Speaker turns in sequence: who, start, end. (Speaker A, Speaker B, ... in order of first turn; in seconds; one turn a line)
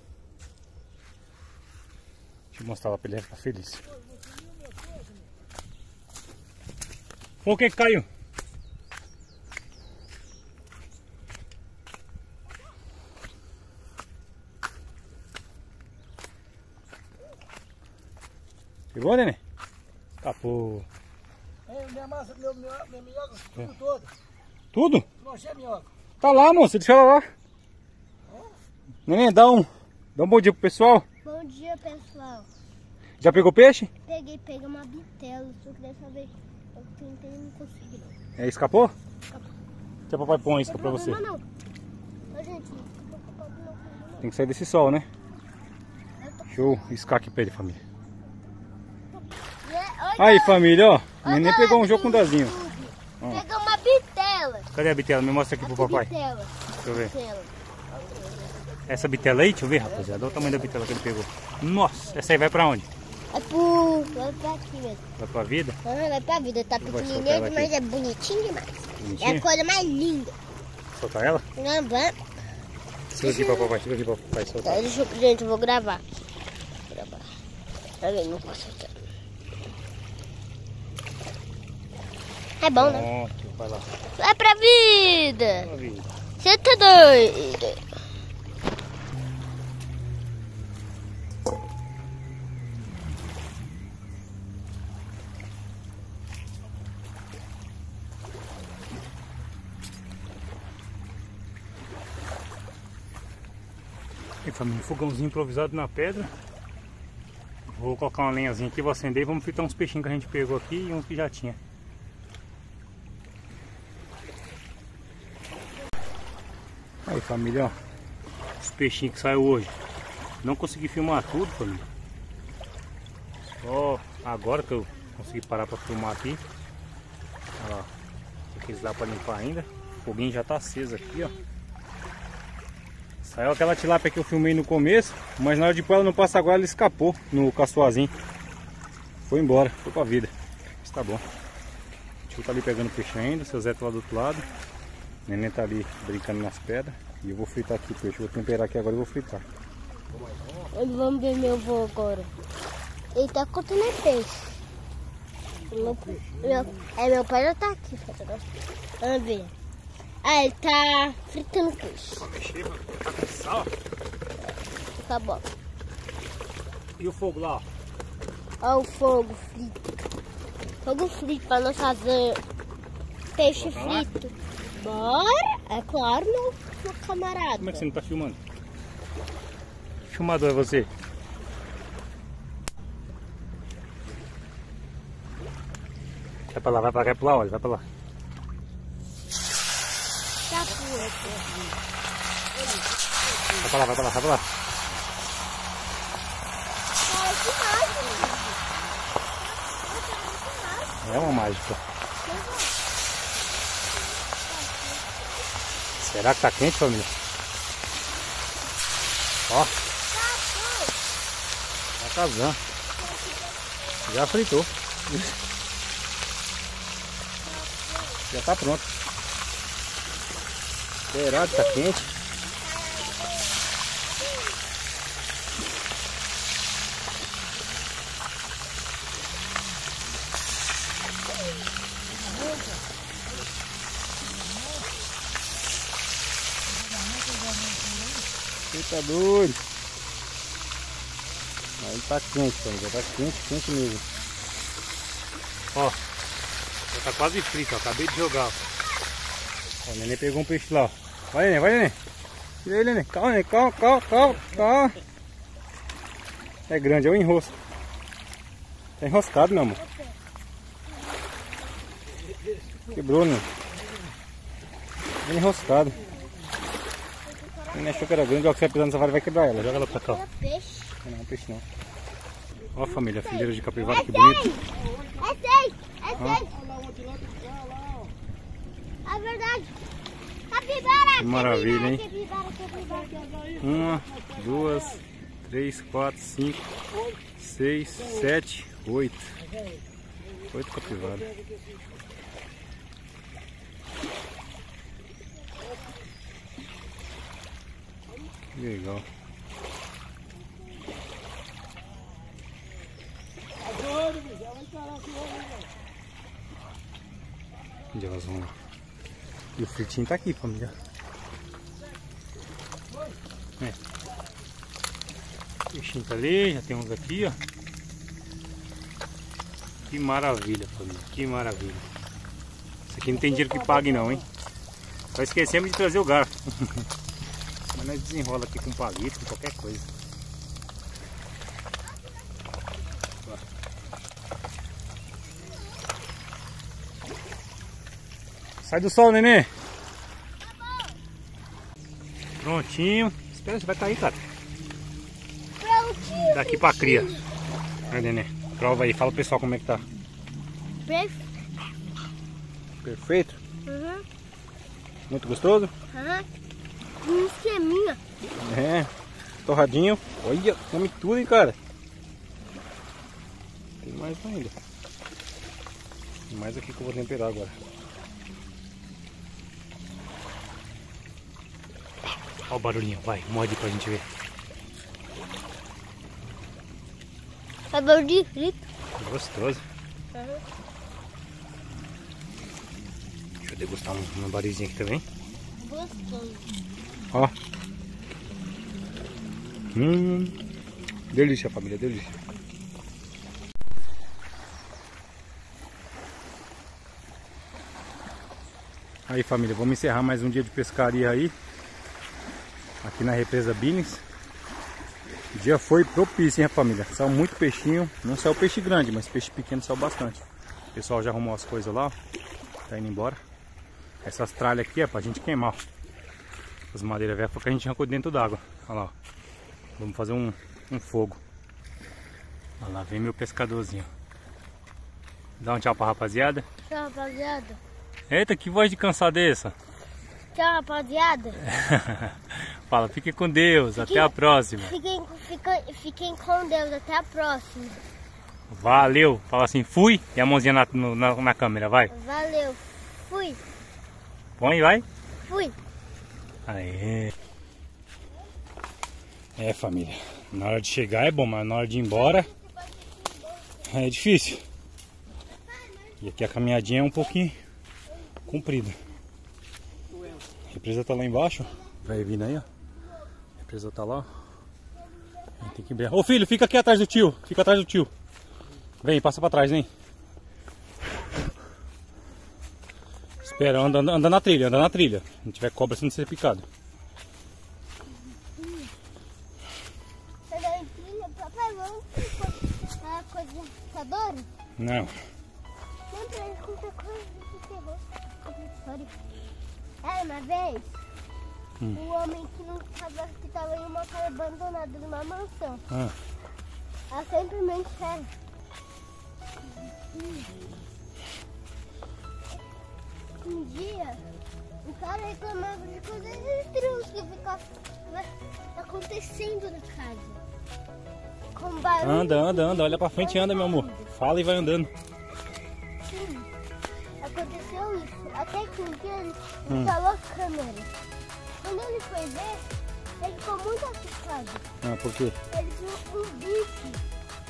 Speaker A: 2.5-3.8
Speaker A: 7.4-8.1
Speaker A: 18.9-19.4
Speaker A: 20.2-20.9
Speaker B: 21.7-24.1
Speaker A: 24.7-25.0
Speaker B: 25.2-25.9
Speaker A: 26.2-27.3
Speaker A: 29.1-31.0
Speaker C: 31.2-32.5
Speaker A: 33.2-33.9
Speaker C: 34.0-38.1
Speaker A: 38.4-38.9
Speaker A: 40.1-41.2
Speaker C: 40.6-41.4
Speaker C: 42.3-44.3
Speaker A: 44.2-45.0
Speaker C: 46.2-46.7
Speaker A: 46.5-47.8
Speaker C: 49.5-50.7
Speaker A: 50.2-52.5
Speaker C: 51.2-54.7
Speaker A: 54.7-56.1
Speaker C: 55.6-58.2
Speaker A: 56.8-57.1
Speaker A: 58.9-62.9
Speaker C: 63.3-65.0
Speaker A: 65.2-65.8
Speaker C: 65.8-70.3
Speaker A: 66.8-67.7
Speaker A: 69.0-69.4
Speaker A: 71.0-71.4
Speaker C: 71.5-72.2
Speaker A: 73.1-74.8
Speaker C: 73.2-73.8
Speaker C: 74.6-76.0
Speaker C: 76.9-77.3
Speaker C: 78.0-79.1
Speaker C: 82.6-83.1
Speaker A: 82.8-83.9
Speaker C: 84.2-85.7
Speaker A: 85.6-86.1
Speaker C: 86.4-87.8
Speaker A: 104.4-106.3
Speaker A: 107.7-111.6
Speaker A: 117.0-117.8
Speaker A: 118.6-119.7
Speaker A: 120.4-121.8
Speaker A: 123.6-126.4
Speaker A: 127.6-127.9
Speaker A: 128.5-131.3
Speaker A: 133.2-138.1
Speaker A: 139.3-141.2
Speaker A: 142.3-144.5
Speaker A: 145.3-149.4
Speaker C: 150.7-152.3
Speaker C: 153.1-154.6
Speaker C: 155.7-158.5
Speaker C: 159.0-159.5
Speaker C: 160.2-162.3
Speaker A: 162.2-163.7
Speaker C: 164.9-165.5
Speaker A: 167.0-167.6
Speaker C: 168.6-169.8
Speaker C: 170.8-172.4
Speaker C: 173.3-177.9
Speaker A: 173.6-174.0
Speaker A: 177.6-178.4
Speaker A: 180.1-180.9
Speaker A: 186.5-187.8
Speaker C: 190.5-191.4
Speaker A: 193.6-194.4
Speaker C: 197.0-198.6
Speaker C: 199.3-201.3
Speaker A: 201.0-201.8
Speaker C: 202.2-202.8
Speaker C: 203.7-205.3
Speaker A: 206.0-207.2
Speaker C: 210.1-210.9
Speaker A: 212.0-212.6
Speaker C: 212.9-214.4
Speaker A: 214.1-214.7
Speaker C: 217.4-218.2
Speaker A: 218.3-218.8
Speaker A: 221.1-222.1
Speaker C: 221.3-221.9
Speaker C: 222.4-224.6
Speaker A: 238.7-239.6
Speaker A: 241.8-244.0
Speaker A: 246.9-248.6
Speaker A: 249.8-252.0
Speaker A: 252.6-255.0
Speaker A: 256.7-257.5
Speaker A: 259.0-259.8
Speaker C: 259.6-260.2
Speaker A: 262.9-263.4
Speaker A: 265.2-266.0
Speaker C: 267.2-268.3
Speaker A: 267.7-270.2
Speaker C: 269.6-270.9
Speaker A: 271.0-271.6
Speaker A: 272.7-274.4
Speaker C: 272.8-276.6
Speaker C: 279.0-279.7
Speaker C: 280.5-283.5
Speaker A: 281.2-282.0
Speaker A: 283.6-286.6
Speaker A: 287.4-289.3
Speaker A: 290.5-291.3
Speaker A: 298.5-299.0
Speaker B: 304.6-304.9
Speaker A: 307.9-308.5
Speaker A: 309.6-310.7
Speaker A: 315.7-317.4
Speaker A: 319.9-321.9
Speaker A: 322.9-324.2
Speaker B: 323.8-324.2
Speaker A: 325.1-326.3
Speaker A: 327.7-329.9
Speaker A: 338.6-339.5
Speaker C: 340.4-341.0
Speaker A: 342.4-344.2
Speaker C: 345.6-347.3
Speaker A: 346.3-347.2
Speaker A: 347.9-349.8
Speaker C: 350.8-351.3
Speaker A: 352.8-353.4
Speaker C: 353.6-354.0
Speaker A: 355.1-355.7
Speaker C: 355.9-356.3
Speaker C: 357.0-358.0
Speaker A: 358.4-358.9
Speaker A: 359.4-361.6
Speaker A: 363.8-364.5
Speaker A: 366.3-367.6
Speaker A: 372.4-374.1
Speaker C: 377.7-378.7
Speaker A: 379.0-379.6
Speaker C: 380.1-380.4
Speaker A: 383.4-385.0
Speaker C: 385.6-386.5
Speaker A: 389.7-390.4
Speaker A: 391.1-392.1
Speaker A: 399.1-401.3
Speaker A: 402.8-404.0
Speaker A: 405.3-411.9
Speaker A: 412.7-413.2
Speaker A: 414.0-415.6
Speaker A: 416.7-418.9
Speaker A: 419.8-421.2
Speaker A: 422.6-423.9
Speaker A: 425.4-426.4
Speaker C: 426.6-427.6
Speaker A: 428.1-429.5
Speaker C: 430.3-431.4
Speaker A: 431.6-432.1
Speaker A: 432.7-434.6
Speaker C: 433.7-437.8
Speaker A: 438.5-441.9
Speaker C: 441.9-443.4
Speaker A: 444.4-444.8
Speaker C: 445.2-445.6
Speaker A: 446.4-447.1
Speaker A: 449.4-452.3
Speaker C: 451.9-453.7
Speaker A: 453.7-454.4
Speaker C: 455.2-456.2
Speaker A: 456.0-457.4
Speaker C: 457.9-458.2
Speaker A: 458.2-458.7
Speaker A: 460.5-462.4
Speaker C: 461.7-463.1
Speaker A: 463.4-464.1
Speaker C: 464.7-465.6
Speaker A: 465.5-467.9
Speaker A: 468.8-469.7
Speaker A: 473.3-476.4
Speaker C: 478.3-478.7
Speaker C: 480.3-484.3
Speaker A: 484.6-484.9
Speaker C: 485.9-488.9
Speaker C: 489.8-490.8
Speaker C: 491.7-495.6
Speaker C: 496.9-498.1
Speaker C: 499.7-500.3
Speaker C: 503.2-504.0
Speaker C: 504.6-510.2
Speaker C: 511.3-513.8
Speaker A: 511.8-514.7
Speaker C: 515.8-516.3
Speaker C: 517.0-520.7
Speaker C: 521.4-522.4
Speaker C: 523.0-524.4
Speaker A: 524.6-525.1
Speaker C: 525.3-526.8